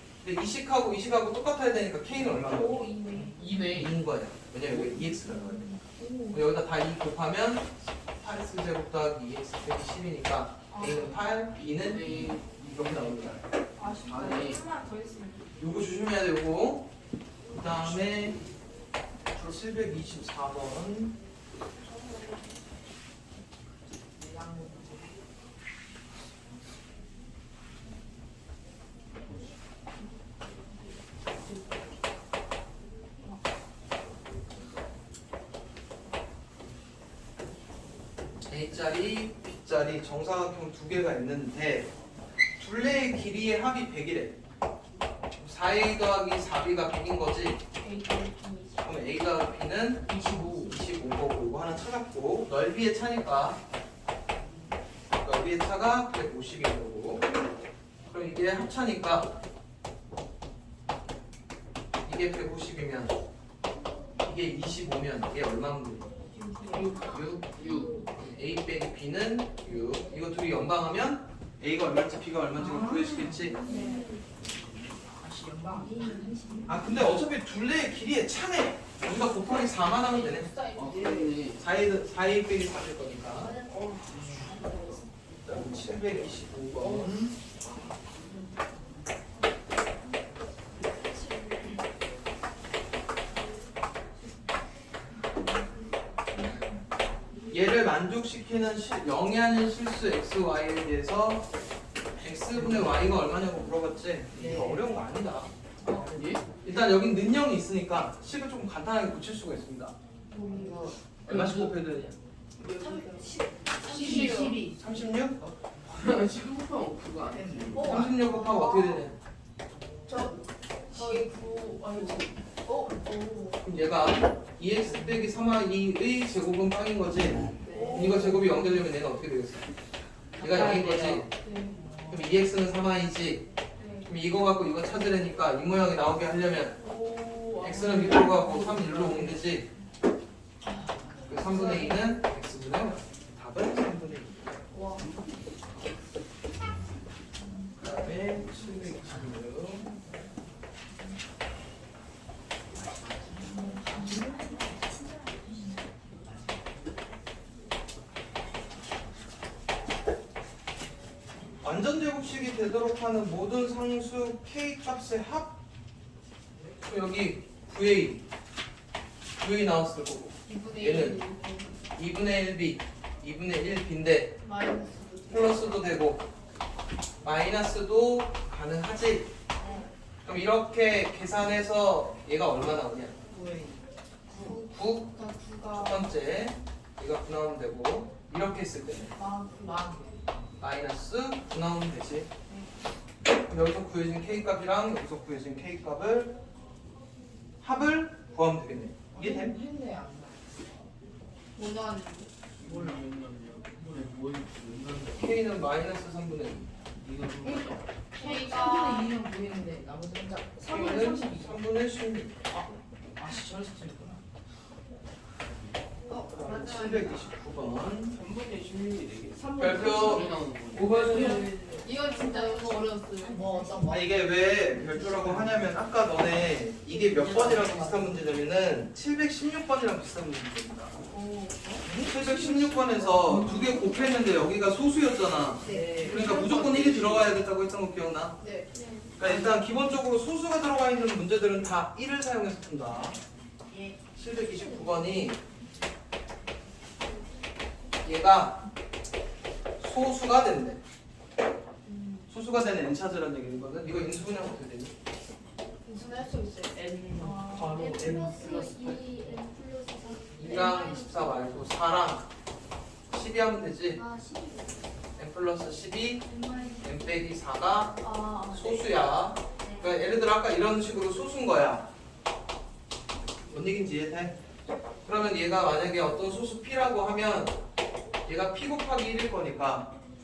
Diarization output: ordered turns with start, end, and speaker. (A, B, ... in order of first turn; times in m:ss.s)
0:00.2-0:02.9 A
0:02.3-0:03.5 B
0:03.2-0:04.0 C
0:03.7-0:13.4 A
0:04.6-0:05.0 C
0:05.3-0:06.1 B
0:06.0-0:06.4 D
0:10.7-0:11.2 B
0:11.5-0:14.6 C
0:13.8-0:15.5 B
0:15.6-0:16.9 A
0:17.6-0:18.4 A
0:19.3-0:21.1 A
0:21.8-0:22.4 B
0:24.2-0:25.1 D
0:38.4-0:41.9 A
0:42.6-0:44.4 A
0:45.4-0:47.6 A
0:47.8-0:48.9 B
0:48.8-0:53.6 A
0:50.1-0:50.7 D
0:50.1-0:50.7 C
0:55.1-0:57.2 A
0:58.1-0:59.3 A
1:02.0-1:03.1 A
1:04.2-1:06.1 A
1:06.3-1:07.0 B
1:06.6-1:07.0 D
1:06.7-1:08.1 E
1:07.0-1:07.5 A
1:07.5-1:08.0 C
1:08.1-1:13.6 A
1:12.6-1:14.0 D
1:13.3-1:14.2 E
1:13.6-1:14.2 B
1:15.2-1:17.1 D
1:15.7-1:17.0 E
1:16.7-1:20.5 A
1:20.0-1:21.4 D
1:20.7-1:21.6 C
1:21.6-1:23.5 A
1:23.3-1:25.1 E
1:24.1-1:24.6 C
1:25.4-1:27.3 A
1:26.8-1:27.1 D
1:27.6-1:28.0 C
1:30.7-1:31.9 E
1:37.5-1:41.5 A
1:42.2-1:45.5 A
1:42.5-1:43.1 C
1:44.3-1:44.9 D
1:45.8-1:46.4 D
1:46.1-1:46.4 C
1:46.6-1:49.9 A
1:50.3-1:50.9 B
1:50.4-1:50.9 D
1:50.5-1:51.8 C
1:51.2-1:52.2 A
1:52.6-1:54.6 B
1:52.6-1:55.5 D
1:53.8-1:54.6 C
1:54.1-1:55.4 A
1:55.4-1:58.0 C
1:57.2-1:58.3 D
1:57.7-1:59.1 B
1:57.8-1:59.2 A
2:00.1-2:03.6 B
2:00.9-2:01.2 D
2:03.6-2:09.7 A
2:04.9-2:05.2 D
2:07.6-2:08.5 D
2:07.7-2:08.4 B
2:10.4-2:11.3 A
2:10.4-2:11.2 D
2:10.4-2:11.3 C
2:11.4-2:11.8 B
2:11.8-2:12.2 D
2:12.1-2:13.4 A
2:13.8-2:14.1 B
2:14.0-2:16.8 A
2:16.8-2:18.5 B
2:17.6-2:19.7 A
2:18.1-2:19.3 D
2:20.6-2:22.0 B
2:21.1-2:21.9 D
2:21.3-2:24.6 A
2:24.7-2:25.1 B
2:25.0-2:25.3 C
2:27.8-2:29.9 A
2:32.9-2:33.3 C
2:33.3-2:34.8 D
2:33.4-2:36.0 E
2:41.6-2:45.6 A
2:46.8-2:48.2 A
2:49.4-2:51.2 A
2:50.4-2:51.8 B
2:51.9-2:54.4 A
2:54.4-2:55.8 B
2:55.3-2:56.3 A
2:57.2-2:59.3 A
2:59.6-2:59.8 E
3:00.2-3:03.1 A
3:03.3-3:03.8 D
3:04.3-3:06.1 B
3:04.4-3:05.1 A
3:05.7-3:09.1 A
3:09.1-3:10.2 D
3:10.6-3:12.3 A
3:13.5-3:16.3 A
3:17.6-3:19.5 A
3:19.1-3:20.4 D
3:21.5-3:22.3 B
3:22.6-3:25.4 C
3:25.1-3:26.8 A
3:26.9-3:27.9 C
3:27.4-3:31.6 D
3:28.1-3:29.1 B
3:30.7-3:32.5 A
3:30.7-3:31.1 C
3:32.5-3:34.2 D
3:35.4-3:35.8 C
3:36.1-3:37.3 B
3:36.3-3:38.2 A
3:38.1-3:41.5 C
3:39.4-3:45.6 D
3:39.6-3:41.5 A
3:40.9-3:43.9 B
3:43.9-3:51.0 A
3:46.8-3:48.3 D
3:51.1-3:51.6 B
3:51.6-3:54.1 D
3:51.9-3:58.4 A
3:52.8-3:53.5 B
3:53.3-3:53.7 C
3:55.6-3:56.4 D
3:55.7-3:57.4 C
3:58.4-3:58.7 B
3:58.7-3:59.2 E
3:59.2-4:03.2 A
3:59.2-3:59.6 D
4:04.1-4:05.4 A
4:04.5-4:05.0 E
4:08.0-4:08.6 A
4:09.8-4:10.8 A
4:11.8-4:12.3 B
4:12.3-4:14.9 A
4:15.8-4:17.7 B
4:16.8-4:19.0 C
4:17.3-4:21.7 E
4:17.6-4:18.7 A
4:20.3-4:22.3 A
4:23.1-4:24.0 A
4:23.9-4:24.9 E
4:25.2-4:31.9 A
4:26.3-4:27.3 E
4:28.0-4:28.8 B
4:29.6-4:30.0 E
4:33.5-4:34.4 A
4:35.0-4:37.6 A
4:38.2-4:39.9 A